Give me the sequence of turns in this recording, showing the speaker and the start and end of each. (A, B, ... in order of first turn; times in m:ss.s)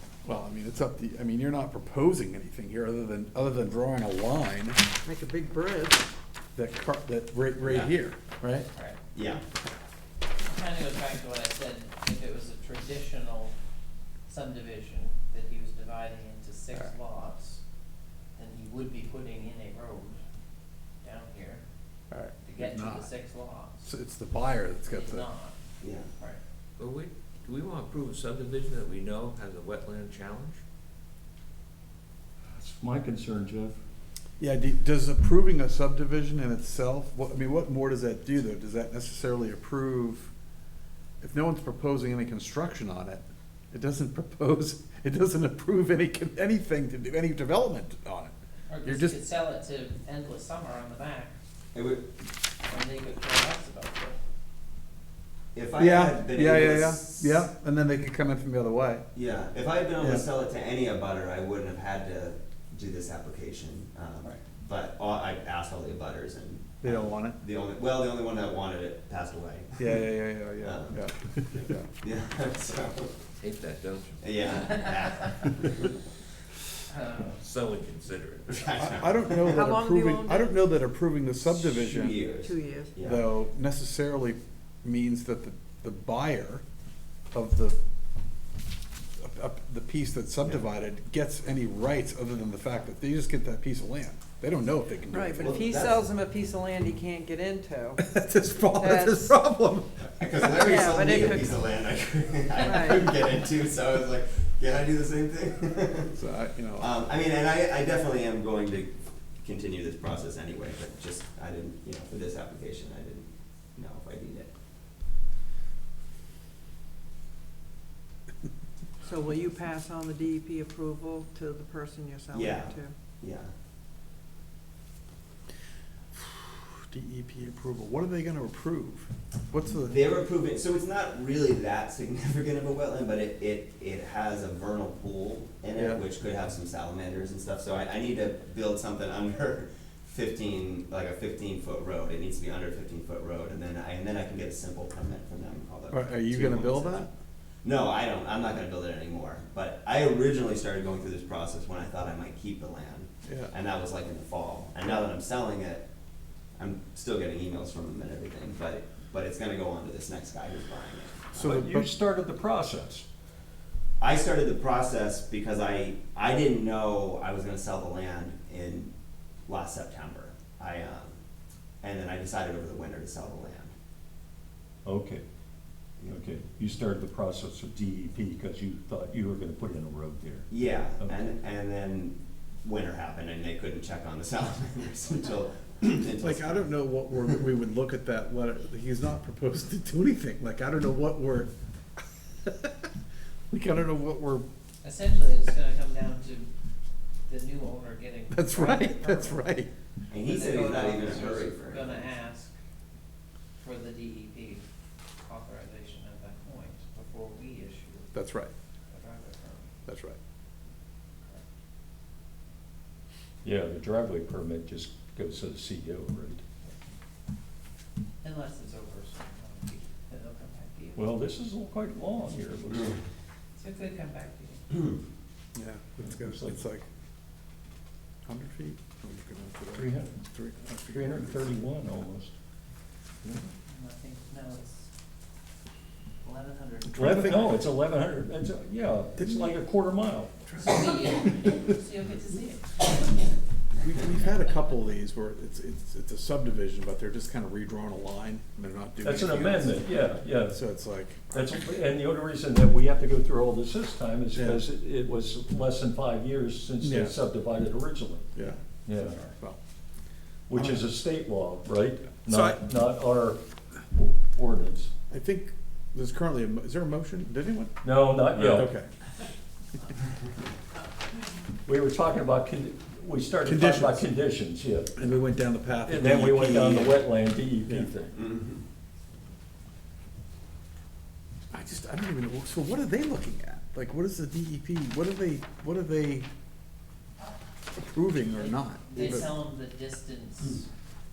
0:00.2-0:04.8 A
0:05.0-0:06.1 B
0:06.6-0:08.7 A
0:07.6-0:07.9 C
0:08.7-0:09.0 D
0:09.1-0:09.4 C
0:10.4-0:13.5 D
0:14.3-0:17.6 D
0:18.4-0:20.2 D
0:21.0-0:21.6 D
0:22.1-0:23.1 A
0:22.4-0:23.9 D
0:23.8-0:25.3 A
0:24.8-0:26.4 D
0:25.8-0:26.1 C
0:26.8-0:30.6 E
0:32.4-0:33.8 F
0:34.4-0:40.3 A
0:41.2-0:49.2 A
0:48.7-0:51.3 D
0:51.7-0:52.1 C
0:52.7-0:54.2 D
0:55.5-0:57.5 C
0:55.8-0:59.0 A
0:59.2-1:09.9 C
1:00.0-1:00.3 A
1:06.8-1:07.4 A
1:09.8-1:11.9 A
1:10.6-1:11.0 C
1:11.5-1:13.1 C
1:13.5-1:14.2 E
1:14.2-1:16.0 C
1:15.2-1:15.5 D
1:16.9-1:17.5 D
1:17.6-1:18.5 E
1:18.5-1:19.6 C
1:18.8-1:22.2 A
1:19.4-1:20.6 B
1:21.5-1:23.3 C
1:22.4-1:22.9 B
1:23.0-1:26.6 A
1:27.3-1:27.8 A
1:29.2-1:35.6 A
1:35.1-1:38.0 B
1:35.4-1:36.0 C
1:38.0-1:40.7 A
1:38.8-1:39.4 B
1:40.0-1:46.2 C
1:40.4-1:41.5 B
1:42.6-1:43.0 B
1:46.2-1:46.9 A
1:46.8-1:54.5 C
1:59.0-2:02.9 B
2:02.3-2:03.5 C
2:06.1-2:10.0 A
2:09.9-2:27.1 C
2:15.8-2:16.0 A
2:25.9-2:27.1 A
2:27.6-2:35.8 C
2:33.3-2:33.5 A
2:36.6-2:41.4 C
2:41.3-2:41.9 A
2:41.4-2:43.0 F
2:44.0-2:48.9 C
2:49.5-2:51.2 C
2:51.8-2:53.7 C
2:54.8-2:55.2 F
2:56.1-3:00.5 F
3:00.5-3:06.7 C
3:06.2-3:11.5 A
3:12.4-3:12.8 A
3:13.5-3:14.5 A
3:14.8-3:16.5 D
3:17.3-3:19.6 D
3:18.3-3:19.7 A
3:20.1-3:22.1 C
3:20.2-3:22.6 D
3:23.6-3:24.6 D
3:25.2-3:28.1 D
3:28.1-3:28.5 A
3:28.9-3:29.8 D
3:29.9-3:30.2 A
3:33.4-3:36.4 F
3:38.2-3:41.2 D
3:41.0-3:43.0 F
3:43.6-3:44.8 D
3:45.6-3:46.8 A
3:46.0-3:46.6 F
3:48.3-3:51.5 A
3:49.8-3:50.2 F
3:50.9-3:52.3 F
3:53.2-3:53.5 F
3:53.7-3:54.9 D
3:56.2-3:57.5 D
3:56.8-3:57.6 A
3:57.0-4:00.3 F
3:59.2-3:59.5 A
4:00.5-4:01.5 A
4:00.6-4:03.0 D
4:03.8-4:11.3 A
4:09.0-4:10.6 F
4:11.3-4:18.3 F
4:14.3-4:14.6 A
4:16.8-4:17.2 A
4:18.4-4:19.6 A
4:18.8-4:19.2 F
4:20.5-4:23.4 F
4:20.5-4:20.9 A
4:22.3-4:22.6 A
4:23.9-4:24.9 F
4:25.1-4:27.8 A
4:27.8-4:28.7 F
4:28.4-4:28.9 A
4:31.7-4:34.9 F
4:33.4-4:34.1 A
4:35.0-4:37.0 A
4:35.8-4:38.1 F
4:38.1-4:38.6 C
4:41.5-4:46.3 A
4:47.8-4:49.3 A
4:48.3-4:50.7 D